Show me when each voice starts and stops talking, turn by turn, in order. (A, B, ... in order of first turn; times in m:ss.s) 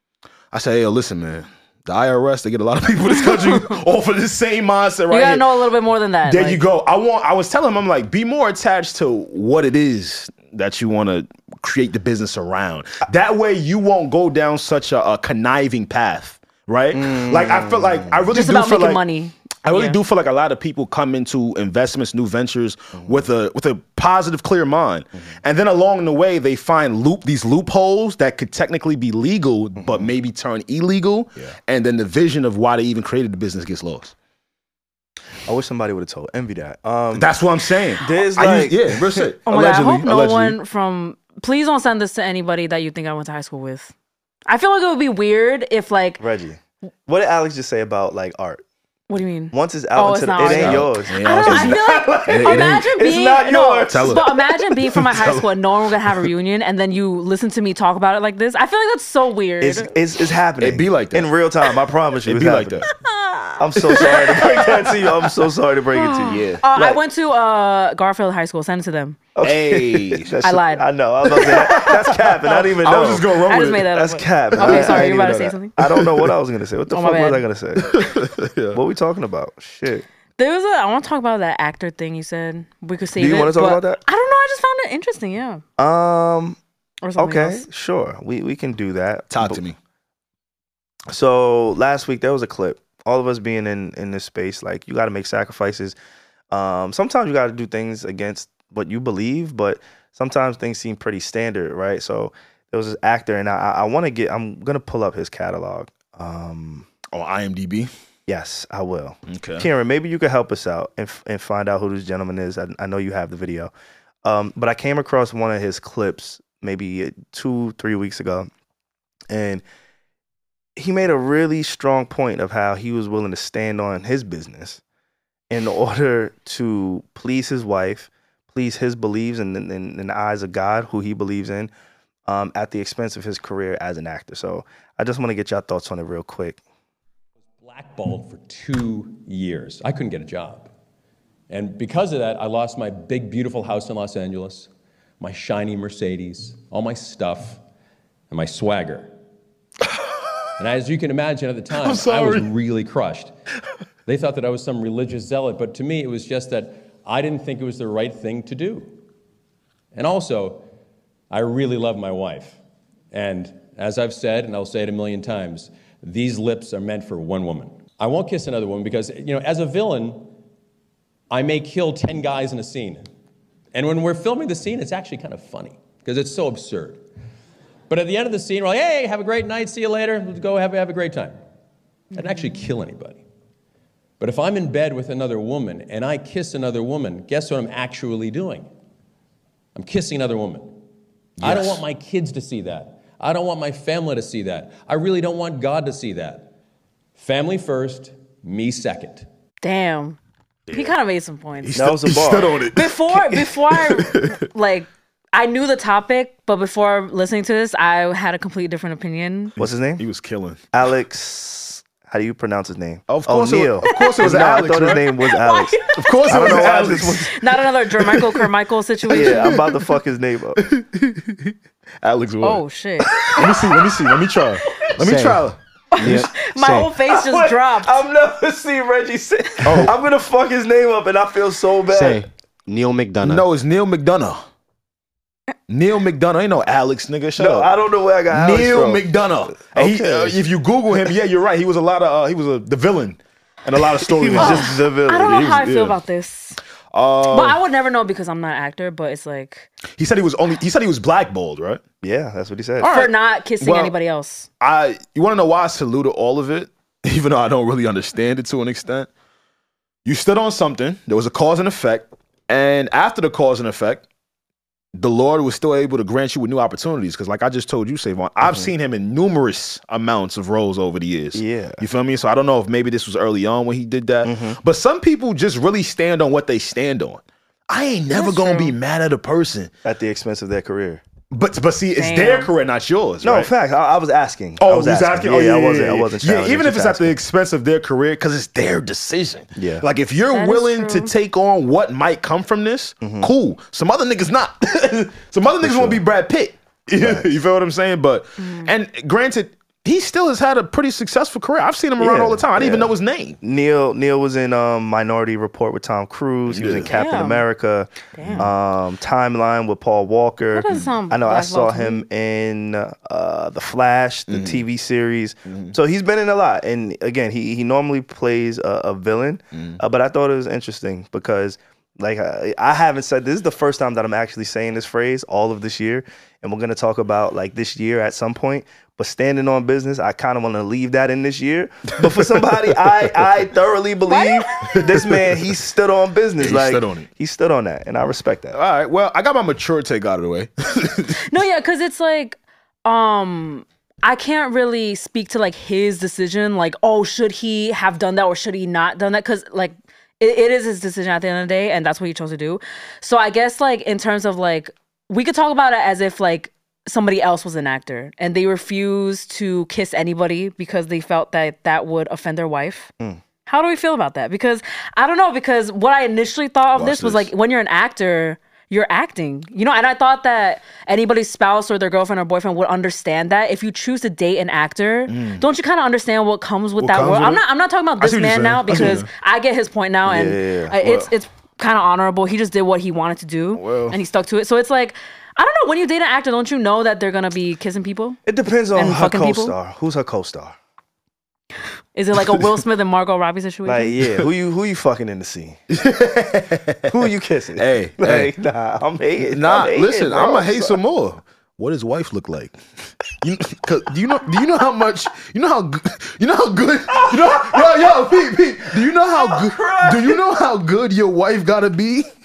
0:00.5-0:05.5 A
0:05.1-0:06.6 B
0:06.2-0:19.0 A
0:16.9-0:18.3 C
0:18.3-0:20.0 B
0:19.6-0:34.1 A
0:29.8-0:30.1 C
0:35.5-0:37.3 C
0:37.1-0:40.6 A
0:38.0-0:39.3 C
0:39.5-0:43.9 B
0:44.5-0:46.2 B
0:46.2-0:48.6 C
0:49.1-0:59.9 B
0:49.5-0:54.3 C
0:50.4-0:53.0 A
0:53.9-0:56.3 A
0:59.6-1:02.9 C
1:00.6-1:01.3 A
1:02.2-1:02.9 A
1:03.2-1:04.6 B
1:03.6-1:07.0 C
1:05.9-1:09.2 B
1:06.2-1:06.6 A
1:09.4-1:13.3 C
1:09.4-1:10.3 A
1:10.4-1:11.9 B
1:11.4-1:13.9 A
1:13.5-1:15.7 B
1:13.9-1:18.1 C
1:14.6-1:16.3 A
1:16.9-1:17.4 B
1:17.8-1:18.8 A
1:18.7-1:20.1 C
1:20.4-1:25.6 B
1:23.2-1:24.0 C
1:25.8-1:26.6 C
1:27.0-1:27.6 B
1:27.2-1:29.6 C
1:29.3-1:29.8 A
1:31.1-1:36.0 C
1:36.5-1:46.9 C
1:47.1-1:47.9 A
1:48.3-1:53.7 C
1:49.3-1:49.7 A
1:54.2-1:58.5 C
1:59.3-1:59.6 C
2:00.8-2:04.8 C
2:05.5-2:11.7 C
2:12.3-2:16.6 C
2:17.6-2:20.7 D
2:21.5-2:27.6 D
2:28.3-2:29.1 D
2:30.0-2:30.3 A
2:30.6-2:33.3 D
2:31.8-2:32.5 A
2:34.1-2:39.0 D
2:39.9-2:40.7 D
2:41.3-2:42.6 D
2:43.1-2:50.3 D
2:51.3-2:53.1 D
2:53.7-2:57.0 D
2:57.9-3:01.4 D
3:02.1-3:03.2 D
3:04.2-3:08.7 D
3:09.8-3:10.8 D
3:11.4-3:11.8 A
3:11.4-3:16.5 D
3:17.2-3:19.3 D
3:19.6-3:20.2 B
3:20.7-3:21.8 B
3:21.6-3:24.3 A
3:21.8-3:22.6 C
3:22.7-3:29.5 B
3:29.6-3:30.6 A
3:29.6-3:30.0 C
3:30.7-3:37.4 C
3:33.1-3:35.0 A
3:34.0-3:34.3 B
3:35.3-3:36.6 B
3:36.0-3:37.4 A
3:37.3-3:39.6 B
3:38.0-3:38.5 A
3:39.1-3:39.8 A
3:39.1-3:40.6 C
3:40.6-3:46.2 A
3:42.4-3:43.5 B
3:45.0-3:46.9 E
3:45.9-3:48.0 B
3:47.1-3:52.2 C
3:49.6-3:50.0 A
3:51.9-3:53.4 E
3:53.2-3:54.4 A
3:55.7-3:57.7 A
3:57.4-4:00.4 C
3:58.3-4:06.0 A
4:04.2-4:05.5 C
4:04.4-4:06.6 B
4:06.9-4:07.6 A
4:07.3-4:09.7 B
4:10.0-4:11.8 A
4:12.0-4:13.0 C
4:12.8-4:14.0 A
4:12.9-4:14.5 B
4:14.6-4:19.1 A
4:20.0-4:24.0 A
4:24.9-4:39.7 A
4:28.4-4:28.7 C
4:31.4-4:31.8 C
4:34.2-4:34.6 C
4:38.1-4:38.8 B
4:39.8-4:41.0 C
4:41.3-4:43.5 A
4:42.0-4:42.5 B
4:43.2-4:47.2 C
4:44.6-5:03.4 A
4:49.6-4:49.8 C
4:50.3-4:51.1 B
4:53.0-4:53.3 C
4:55.6-4:56.0 C
4:57.0-4:57.3 C
4:58.4-4:58.7 B
5:02.0-5:38.6 C
5:06.5-5:06.9 A
5:06.9-5:07.5 B
5:08.1-5:08.5 B
5:08.2-5:08.5 A
5:10.5-5:12.1 B
5:14.3-5:14.6 A
5:15.4-5:15.8 A
5:19.5-5:19.8 A
5:32.0-5:33.2 A
5:34.1-5:34.8 B
5:34.7-5:35.6 A
5:36.4-5:37.1 A
5:38.5-5:41.2 A
5:41.2-6:02.9 B
6:03.5-6:28.2 B
6:06.8-6:07.3 A
6:15.1-6:15.4 A
6:16.8-6:17.4 A
6:18.0-6:19.1 A
6:20.1-6:20.7 C
6:20.8-6:21.1 A
6:23.5-6:24.0 A
6:28.3-6:30.6 C
6:28.8-6:29.6 B
6:32.0-6:34.0 B
6:33.7-6:35.6 C
6:35.7-6:37.1 A
6:36.9-6:40.8 C
6:37.6-6:38.3 A
6:39.3-6:42.6 A
6:43.2-6:52.1 A
6:47.0-6:48.3 C
6:49.1-6:50.2 C